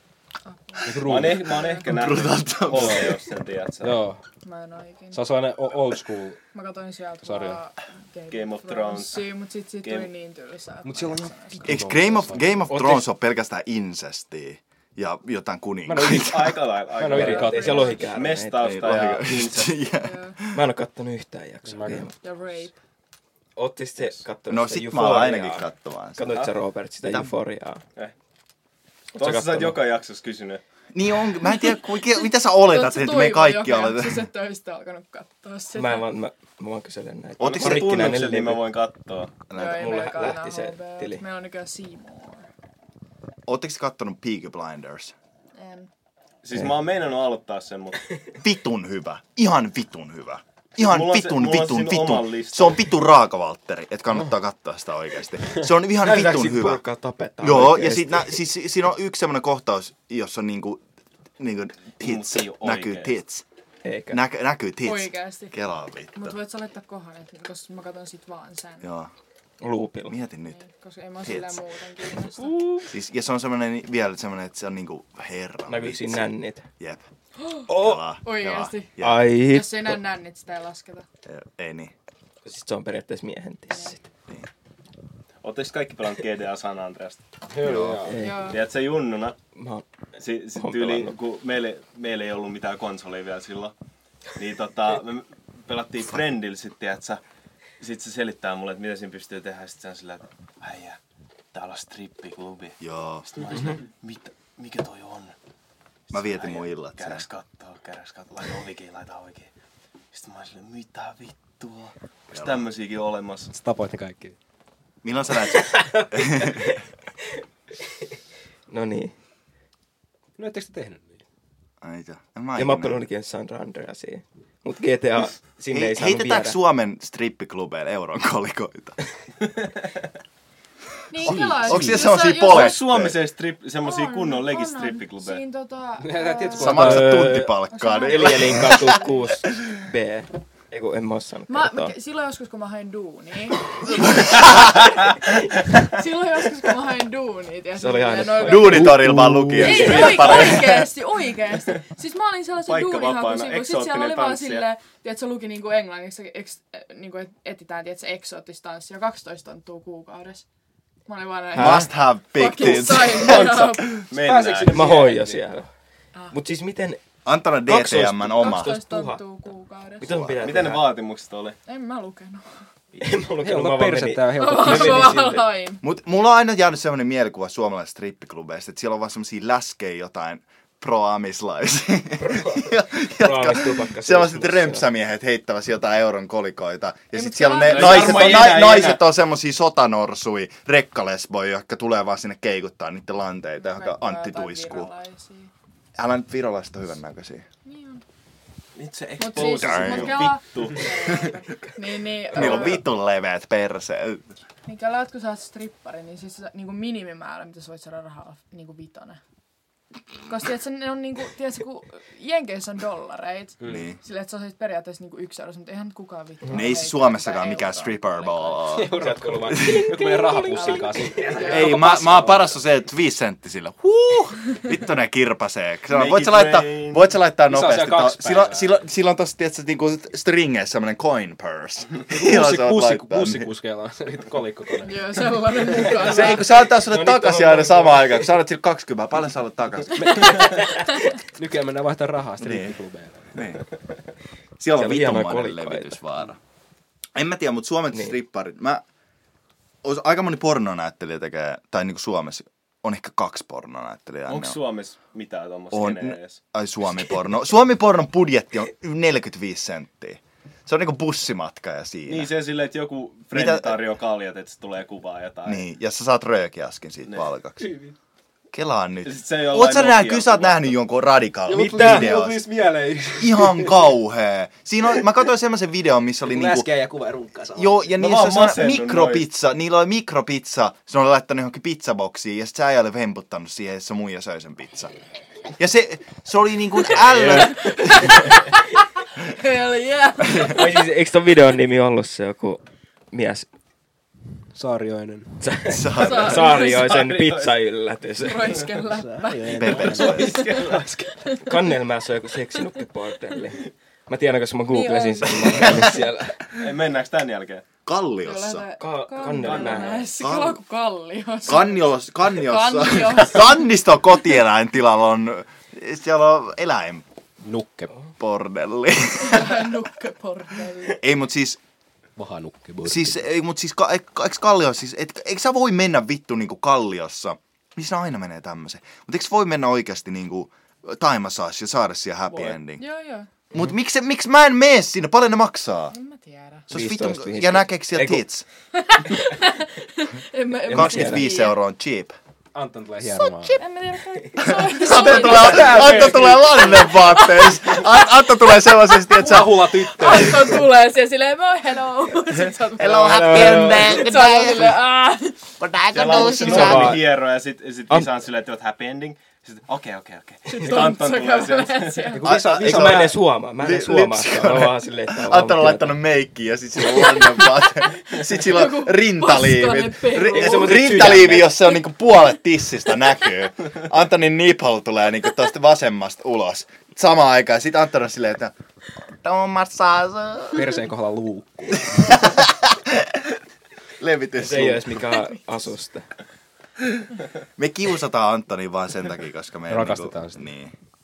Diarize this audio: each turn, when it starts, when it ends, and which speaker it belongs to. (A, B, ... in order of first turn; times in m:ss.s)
0:00.4-0:01.9 A
0:00.8-0:01.6 B
0:01.0-0:04.0 C
0:01.8-0:03.2 D
0:02.7-0:03.1 B
0:03.8-0:04.2 B
0:04.4-0:05.3 A
0:05.1-0:06.4 B
0:06.5-0:11.8 A
0:07.2-0:07.6 B
0:08.3-0:09.3 C
0:09.8-0:10.1 C
0:10.8-0:12.6 B
0:11.6-0:16.6 D
0:12.7-0:13.1 E
0:15.9-0:18.0 B
0:16.0-0:19.8 C
0:17.1-0:18.9 E
0:17.2-0:18.1 A
0:18.6-0:20.6 D
0:20.0-0:20.4 A
0:20.5-0:22.1 E
0:21.7-0:22.1 B
0:22.2-0:22.7 A
0:23.6-0:27.8 E
0:24.5-0:26.4 D
0:27.0-0:27.3 D
0:29.1-0:29.8 E
0:29.2-0:30.6 C
0:30.9-0:34.3 D
0:32.6-0:36.1 A
0:35.7-0:38.6 E
0:37.4-0:38.2 D
0:37.4-0:39.3 C
0:39.5-0:40.3 D
0:39.5-0:42.4 A
0:39.6-0:41.2 E
0:43.4-0:45.1 D
0:45.6-0:45.9 A
0:46.4-0:48.1 C
0:48.4-0:56.8 D
0:50.8-0:52.9 C
0:56.0-0:58.4 E
0:57.4-1:00.8 D
1:01.4-1:03.4 D
1:02.0-1:03.1 C
1:03.8-1:04.2 E
1:04.1-1:06.4 D
1:04.8-1:05.6 A
1:06.1-1:08.9 A
1:08.8-1:09.1 D
1:09.6-1:10.2 E
1:10.1-1:10.6 D
1:10.5-1:12.6 A
1:11.2-1:11.6 D
1:12.4-1:12.9 E
1:12.9-1:17.0 D
1:15.7-1:16.7 E
1:17.4-1:17.7 A
1:17.7-1:19.2 D
1:17.7-1:18.0 E
1:18.2-1:21.0 A
1:19.0-1:20.0 E
1:21.2-1:21.9 D
1:22.4-1:24.0 E
1:23.7-1:24.0 A
1:25.4-1:27.2 C
1:27.5-1:28.3 B
1:27.6-1:28.1 D
1:28.0-1:28.6 E
1:28.2-1:28.6 A
1:28.4-1:29.4 C
1:29.6-1:29.8 E
1:30.1-1:33.7 C
1:30.6-1:31.1 E
1:34.4-1:37.2 C
1:37.8-1:41.0 C
1:41.5-1:45.3 C
1:42.8-1:43.3 D
1:46.1-1:49.5 C
1:46.1-1:47.2 D
1:50.1-1:53.5 C
1:52.3-1:52.7 D
1:53.5-1:54.4 B
1:55.0-1:56.8 D
1:55.6-1:56.8 E
1:58.7-1:59.1 E
2:00.4-2:01.2 B
2:01.8-2:03.0 D
2:02.6-2:06.6 E
2:05.7-2:09.0 D
2:11.1-2:12.8 A
2:11.2-2:12.1 B
2:11.2-2:13.2 D
2:12.4-2:15.4 C
2:13.8-2:17.0 A
2:16.0-2:17.4 B
2:16.6-2:19.1 D
2:16.7-2:21.9 E
2:17.7-2:19.4 A
2:21.5-2:29.0 A
2:24.0-2:24.7 D
2:27.7-2:30.6 E
2:28.4-2:30.9 D
2:29.0-2:29.7 B
2:29.6-2:40.4 A
2:32.6-2:34.7 C
2:41.0-2:44.0 A
2:41.5-2:41.9 E
2:41.6-2:44.0 D
2:43.1-2:44.8 C
2:44.1-2:45.4 B
2:44.6-2:45.7 E
2:46.3-2:47.0 E
2:47.2-2:48.8 D
2:47.6-2:49.2 E
2:48.4-2:50.2 A
2:50.0-2:50.9 E
2:50.0-2:50.7 D
2:50.4-2:51.6 C
2:51.7-2:52.6 A
2:53.0-2:55.4 E
2:53.4-2:55.4 B
2:54.4-2:55.8 A
2:55.8-3:14.9 D
3:02.2-3:04.9 E
3:07.1-3:08.5 A
3:07.6-3:09.0 C
3:13.6-3:15.5 A
3:16.0-3:17.5 D
3:17.6-3:18.0 A
3:18.8-3:21.3 C
3:19.2-3:22.8 A
3:19.4-3:20.3 D
3:21.0-3:21.4 D
3:22.3-3:24.4 D
3:24.7-3:29.2 A
3:30.2-3:38.8 A
3:33.6-3:33.9 B
3:33.7-3:34.0 D
3:36.5-3:39.0 D
3:38.7-3:42.5 B
3:38.9-3:42.0 E
3:39.5-3:39.8 D
3:40.5-3:41.8 A
3:41.4-3:53.5 D
3:45.9-3:47.1 C
3:47.5-3:48.7 B
3:52.1-3:56.0 B
3:54.8-3:56.6 A
3:55.8-4:00.5 D
3:56.2-3:58.3 E
4:00.0-4:03.4 B
4:02.4-4:02.8 D
4:03.3-4:03.6 D
4:04.6-4:06.4 D
4:04.7-4:06.0 E
4:07.1-4:08.8 D
4:09.8-4:14.6 D
4:14.3-4:16.4 C
4:15.7-4:22.3 D
4:22.1-4:25.6 C
4:23.3-4:23.8 D
4:25.4-4:27.7 D
4:27.6-4:27.9 B
4:28.5-4:32.4 D
4:29.0-4:30.8 C
4:31.5-4:33.8 B
4:33.2-4:36.7 D
4:36.2-4:37.8 B
4:37.6-4:44.9 D
4:38.0-4:39.3 C
4:45.6-4:48.3 D
4:47.1-4:47.7 E
4:47.2-4:50.8 A
4:50.4-4:53.5 E
4:54.5-4:55.5 B
4:55.4-4:58.7 E
4:55.7-4:56.6 D
4:55.9-4:57.0 A
4:56.6-4:57.5 C
4:58.2-5:01.6 A
4:59.0-5:00.5 B
4:59.6-5:00.4 D
4:59.8-5:00.9 C
5:01.4-5:06.4 E
5:04.7-5:06.0 A
5:06.6-5:07.6 C
5:07.8-5:08.7 D
5:08.2-5:13.7 A
5:08.8-5:10.1 E
5:09.2-5:10.1 C
5:10.2-5:10.6 D
5:11.4-5:17.0 D
5:17.4-5:17.9 B
5:18.2-5:19.7 D
5:19.2-5:21.0 A
5:20.9-5:21.6 D
5:22.2-5:23.2 B
5:22.8-5:32.8 D
5:32.8-5:33.3 A
5:33.5-5:36.0 D
5:35.9-5:36.7 A
5:36.7-5:38.4 D
5:36.7-5:38.2 E
5:38.7-5:41.6 A
5:40.7-5:41.3 E
5:40.7-5:42.2 D
5:42.5-5:43.6 B
5:43.4-5:49.0 A
5:44.4-5:49.7 D
5:44.8-5:46.6 B
5:49.1-5:50.7 B
5:49.6-5:56.9 A
5:52.7-5:54.8 D
5:52.9-5:54.1 E
5:55.6-5:57.0 D
5:55.9-6:02.2 C
5:56.2-5:57.1 E
6:00.5-6:02.3 A
6:02.1-6:03.2 B
6:02.2-6:18.5 D
6:02.5-6:06.0 E
6:06.8-6:11.3 A
6:10.3-6:11.6 E
6:19.0-6:20.8 D
6:20.5-6:22.2 B
6:21.8-6:23.4 D
6:24.0-6:25.0 D
6:24.4-6:26.1 E
6:27.6-6:30.7 D
6:29.7-6:30.4 B